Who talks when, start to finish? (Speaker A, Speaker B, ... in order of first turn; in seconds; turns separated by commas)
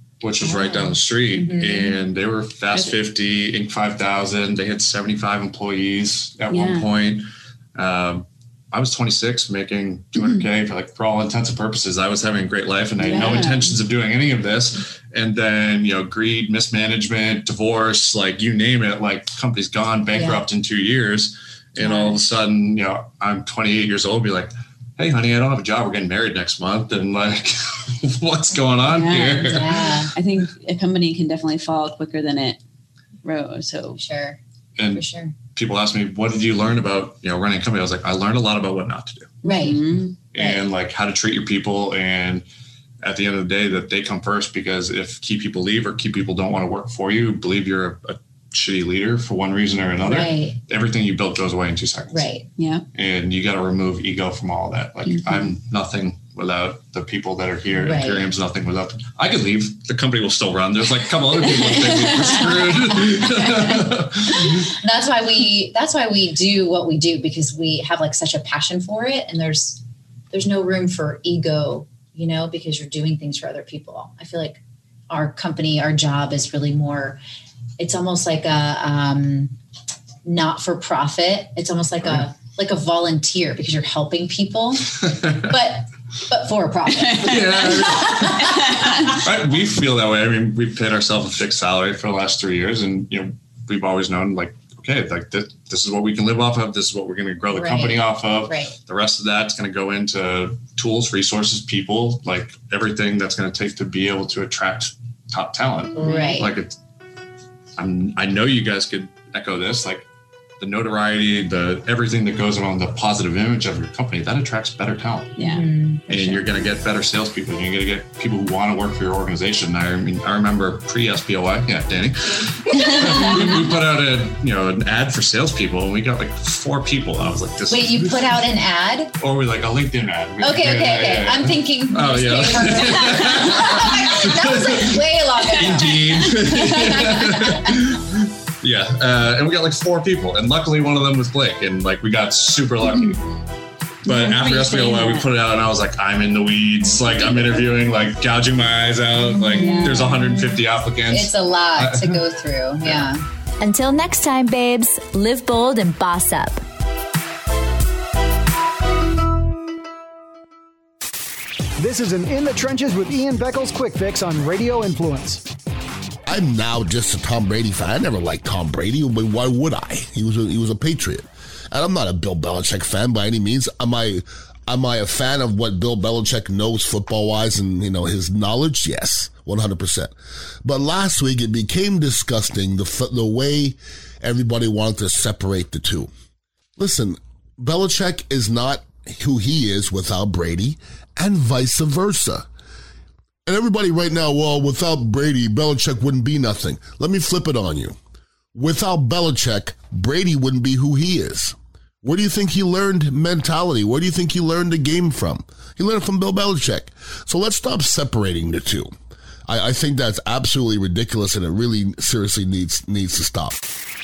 Speaker A: 0.2-30.1, Speaker B: 0.4-2.0, Speaker C: 6.5-6.9, Speaker C: 13.0-13.8, Speaker B: 20.1-20.4, Speaker B: 21.8-22.2, Speaker C: 28.9-29.6, Speaker B: 29.4-30.1, Speaker C: 30.1-32.6, Speaker C: 33.2-34.0, Speaker B: 34.0-34.4, Speaker A: 34.8-39.3, Speaker B: 34.9-35.3, Speaker B: 39.4-40.6, Speaker C: 39.4-40.1, Speaker A: 40.3-42.4, Speaker A: 43.0-52.3, Speaker B: 50.0-50.6, Speaker B: 52.1-52.5, Speaker C: 52.6-52.8, Speaker A: 52.9-64.7, Speaker B: 57.8-58.3, Speaker C: 61.7-62.5, Speaker B: 64.3-77.2, Speaker B: 77.8-79.5, Speaker B: 80.2-89.1, Speaker A: 85.0-85.5, Speaker C: 87.0-89.1, Speaker A: 87.1-106.8, Speaker B: 97.5-98.8, Speaker B: 106.0-106.5, Speaker C: 106.0-106.3, Speaker A: 107.8-110.1, Speaker A: 110.6-115.4, Speaker C: 115.4-115.6, Speaker B: 115.4-116.5, Speaker A: 116.1-128.3, Speaker B: 122.9-123.3, Speaker B: 127.7-129.1, Speaker A: 129.2-143.2, Speaker B: 130.4-137.7, Speaker C: 144.0-145.3, Speaker A: 144.0-152.2, Speaker B: 149.5-153.2, Speaker C: 149.6-150.0, Speaker A: 152.8-153.1, Speaker D: 153.6-156.6, Speaker E: 161.8-165.4, Speaker F: 166.2-186.1, Speaker F: 186.8-192.5, Speaker F: 193.4-198.0, Speaker F: 198.5-208.9, Speaker F: 209.5-213.5